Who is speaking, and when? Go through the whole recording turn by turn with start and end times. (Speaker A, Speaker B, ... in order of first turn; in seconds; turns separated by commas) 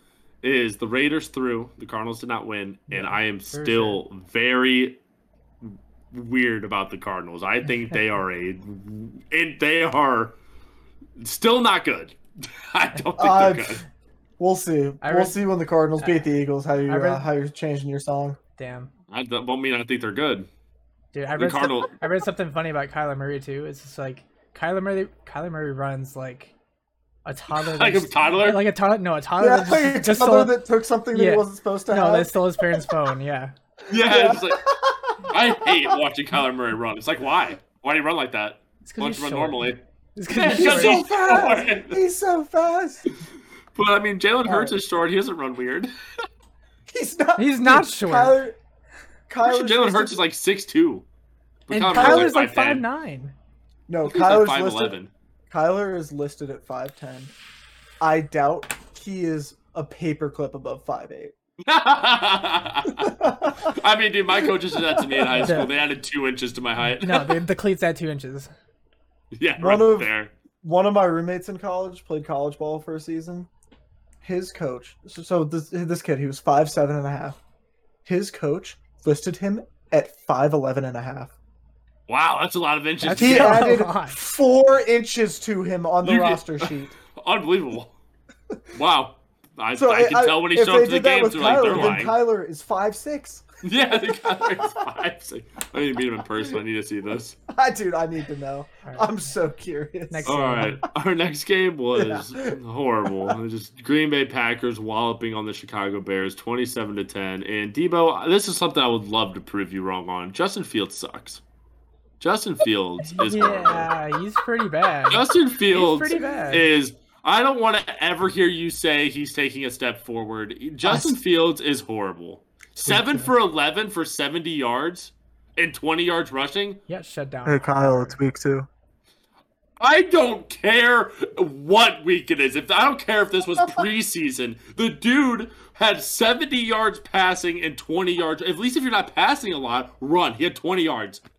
Speaker A: 0.4-5.0, Speaker B: 2.9-4.0, Speaker A: 5.6-10.4, Speaker A: 11.2-13.8, Speaker C: 13.2-13.8, Speaker C: 14.4-18.4, Speaker B: 15.0-15.4, Speaker B: 16.0-16.3, Speaker B: 16.9-17.3, Speaker B: 18.6-18.9, Speaker A: 19.1-20.5, Speaker B: 21.1-26.5, Speaker A: 21.4-22.0, Speaker B: 27.2-30.5, Speaker A: 27.5-28.6, Speaker C: 29.4-33.0, Speaker B: 31.1-33.5, Speaker A: 33.9-34.6, Speaker C: 33.9-36.0, Speaker A: 35.2-42.0, Speaker B: 38.8-41.0, Speaker C: 40.5-43.0, Speaker A: 43.7-45.9, Speaker C: 44.5-44.8, Speaker C: 46.9-48.5, Speaker B: 47.4-48.4, Speaker C: 49.3-50.2, Speaker A: 49.4-51.0, Speaker A: 51.7-52.9, Speaker B: 51.7-53.3, Speaker C: 51.9-52.4, Speaker C: 53.9-54.9, Speaker A: 54.0-55.1, Speaker C: 55.5-57.3, Speaker C: 58.0-61.3, Speaker A: 61.6-67.4, Speaker C: 63.0-63.7, Speaker C: 64.3-65.7, Speaker B: 65.4-65.7, Speaker B: 66.9-68.5, Speaker A: 69.3-70.3, Speaker C: 69.6-73.5, Speaker C: 74.2-77.4, Speaker C: 78.0-81.3, Speaker A: 82.1-83.7, Speaker B: 83.0-84.2, Speaker C: 83.2-87.0, Speaker A: 86.0-88.0, Speaker A: 88.7-92.1, Speaker C: 89.8-94.8, Speaker A: 93.6-97.4, Speaker C: 97.5-100.7, Speaker B: 98.8-99.1, Speaker B: 100.1-100.8, Speaker A: 100.2-111.4, Speaker C: 102.0-102.6, Speaker A: 112.2-113.9, Speaker B: 113.0-116.7, Speaker A: 115.1-126.8, Speaker C: 120.8-121.2, Speaker C: 122.9-123.2, Speaker B: 126.9-128.2, Speaker C: 127.5-128.7, Speaker A: 129.8-141.2